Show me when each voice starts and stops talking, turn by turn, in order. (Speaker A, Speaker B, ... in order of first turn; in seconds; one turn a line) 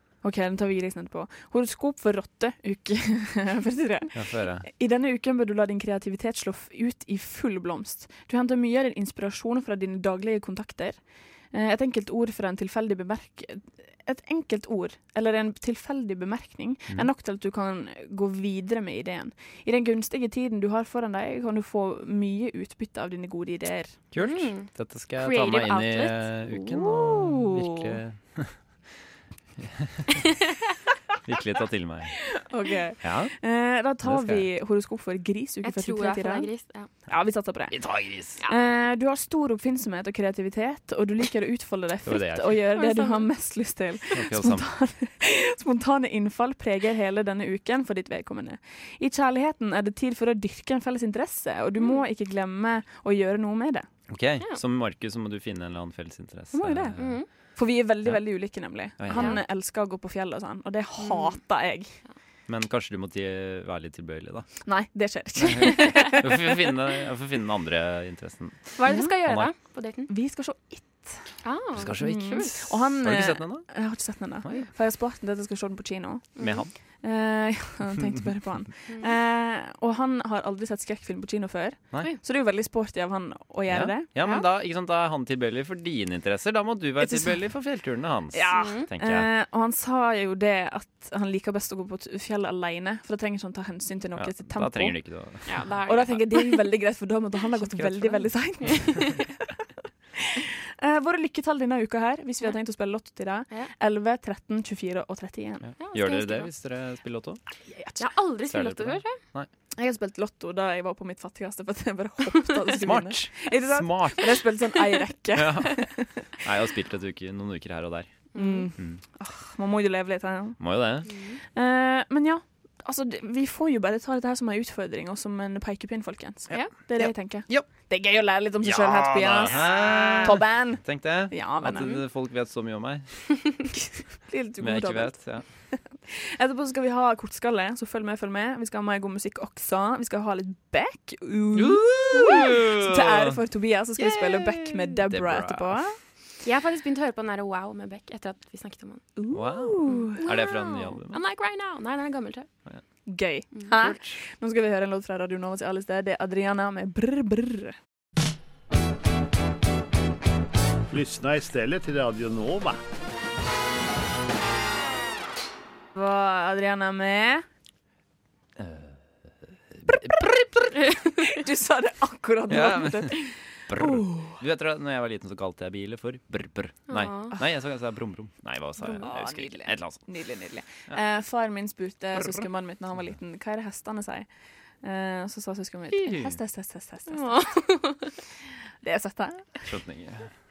Speaker A: 0.2-24.0
Speaker B: 4.1-4.7
Speaker B: 24.1-28.6
Speaker C: 24.2-26.2
Speaker A: 26.6-28.0
Speaker B: 29.6-30.2
Speaker B: 31.2-32.4
Speaker A: 32.3-36.5
Speaker B: 33.0-33.4
Speaker B: 34.0-34.5
Speaker C: 35.6-36.9
Speaker A: 37.1-37.8
Speaker B: 37.7-38.4
Speaker A: 38.4-53.9
Speaker B: 42.0-42.7
Speaker C: 42.8-43.2
Speaker B: 44.1-44.6
Speaker B: 54.1-57.2
Speaker A: 56.5-62.0
Speaker C: 57.0-57.3
Speaker B: 58.0-59.4
Speaker C: 59.1-59.4
Speaker C: 61.0-61.4
Speaker B: 62.5-64.6
Speaker A: 64.7-66.7
Speaker B: 65.3-69.5
Speaker C: 68.8-70.1
Speaker A: 68.9-69.1
Speaker A: 70.1-71.3
Speaker C: 71.4-72.5
Speaker B: 71.8-73.7
Speaker A: 71.9-76.4
Speaker C: 76.4-76.6
Speaker B: 76.4-76.7
Speaker A: 77.0-84.2
Speaker B: 83.7-89.3
Speaker A: 87.0-87.5
Speaker A: 88.3-95.2
Speaker C: 88.5-88.9
Speaker B: 94.2-95.7
Speaker C: 95.4-96.6
Speaker A: 95.9-99.3
Speaker B: 97.7-99.0
Speaker A: 100.2-105.7
Speaker B: 105.6-107.4
Speaker C: 105.8-106.5
Speaker C: 108.0-109.2
Speaker B: 108.5-109.5
Speaker A: 109.8-116.1
Speaker B: 112.8-114.3
Speaker B: 115.3-118.2
Speaker C: 118.3-118.7
Speaker A: 118.3-120.6
Speaker B: 120.6-121.1
Speaker C: 121.0-121.4
Speaker A: 121.5-132.0
Speaker B: 126.6-127.7
Speaker B: 128.6-133.7
Speaker A: 134.2-146.0
Speaker B: 134.6-135.5
Speaker B: 141.5-143.4
Speaker B: 144.1-145.8
Speaker C: 146.4-149.0
Speaker A: 149.2-150.2
Speaker B: 149.3-151.2
Speaker C: 149.8-152.5
Speaker A: 153.1-157.8
Speaker B: 153.7-154.1
Speaker D: 160.9-162.8
Speaker A: 165.9-167.4
Speaker B: 168.6-169.0
Speaker B: 169.7-170.8
Speaker A: 171.0-174.4
Speaker B: 172.5-180.1
Speaker C: 176.9-177.3
Speaker A: 178.8-184.3
Speaker B: 182.1-182.5
Speaker A: 184.8-187.5
Speaker B: 185.9-186.4
Speaker C: 187.1-188.1
Speaker A: 188.8-189.6
Speaker B: 189.7-190.3